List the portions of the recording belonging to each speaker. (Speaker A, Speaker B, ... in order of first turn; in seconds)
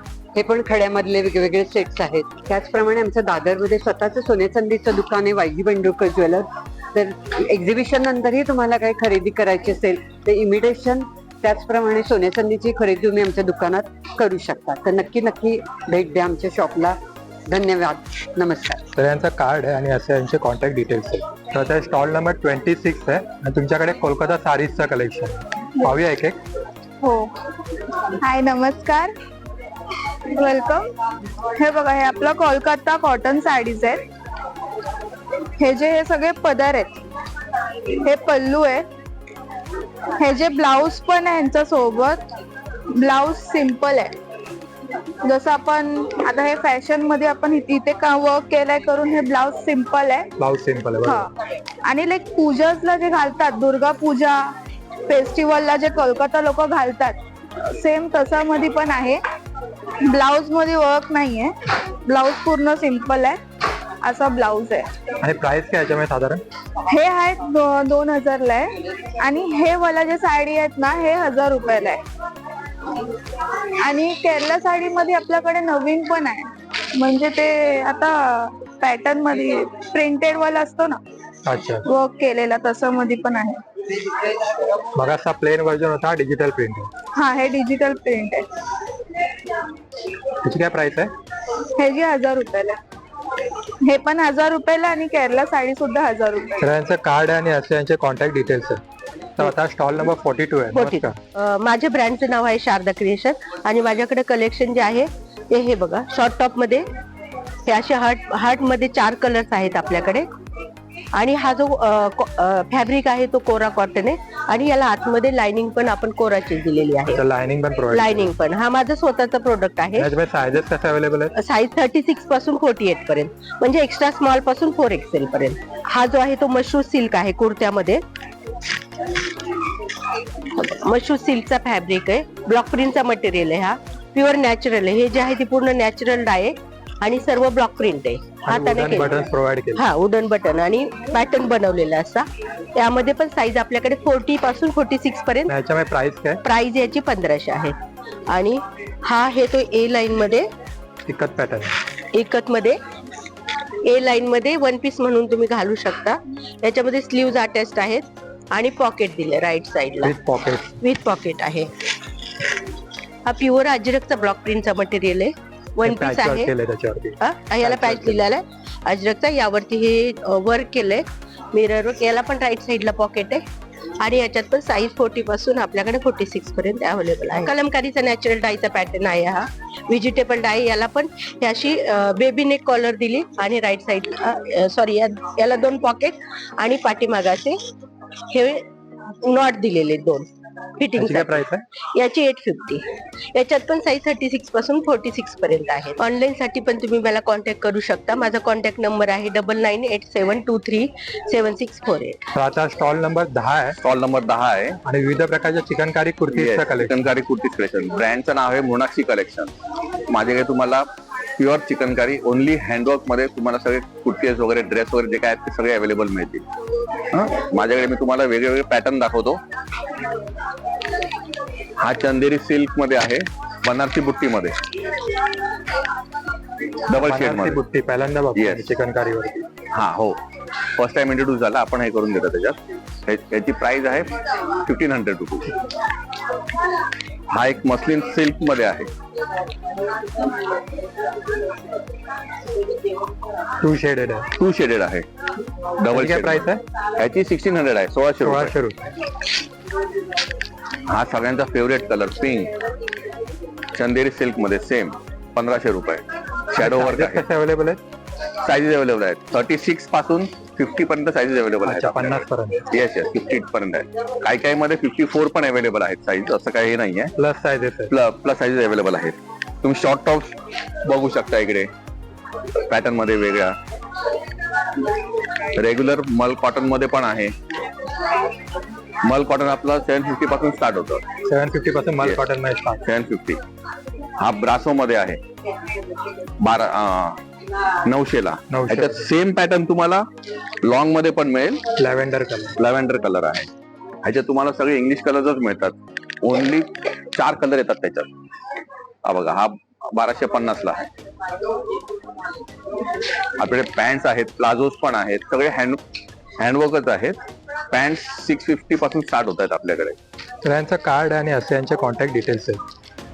Speaker A: 0.3-17.0, 17.5-18.8
Speaker B: 18.9-26.4, 50.4-51.2, 65.2-66.4, 81.5-81.8, 84.9-86.9, 90.4-91.1, 96.6-98.8, 99.4-101.2, 117.1-118.3, 120.0-121.3, 138.4-139.8, 145.5-146.4, 151.1-151.8, 160.0-160.8, 165.8-168.3, 191.0-191.6, 202.3-203.8, 204.8-206.9, 226.9-229.5, 243.6-244.3, 245.9-246.6, 248.2-248.9, 256.5-257.8, 261.6-262.6, 267.2-267.9, 281.2-282.8, 288.5-289.1, 291.8-292.6, 310.4-312.6
Speaker C: 27.0-27.3, 28.2-29.1, 30.3-30.8, 31.6-34.0, 35.6-36.9, 38.0-38.8, 40.2-42.2, 43.0-44.1, 45.3-50.3, 51.0-51.3, 51.9-54.4, 55.1-57.1, 57.8-59.2, 60.1-61.5, 62.0-63.4, 64.0-64.9, 66.9-68.7, 69.2-72.0, 73.8-81.0, 81.8-83.6, 87.2-88.5, 91.8-92.7, 93.8-96.6
Speaker D: 100.7-106.9, 107.7-110.3, 111.1-117.2, 117.9-120.1, 121.3-128.0, 130.6-145.5, 146.4-147.7, 148.3-150.5, 152.1-152.8, 153.8-160.2, 160.8-161.7, 163.2-166.5, 167.2-173.4, 174.0-187.6, 188.3-188.6, 189.2-190.2, 190.8-202.2
Speaker E: 203.8-204.8, 206.3-209.5, 210.1-216.4, 217.1-219.4, 221.8-224.6, 226.9-227.6, 228.3-228.8, 229.7-230.2, 230.8-234.1, 234.6-235.5, 237.3-238.9, 244.4-245.0, 245.8-248.5, 250.9-252.5, 253.7-257.2, 258.4-267.1, 267.9-271.7, 272.7-273.6, 275.6-277.3, 279.0-281.0, 282.0-282.2, 282.8-283.4, 284.2-285.2, 286.4-287.2, 287.9-290.1, 290.6-291.6, 292.6-293.5, 294.0-298.1, 299.0-300.9, 303.4-305.8, 306.4-310.0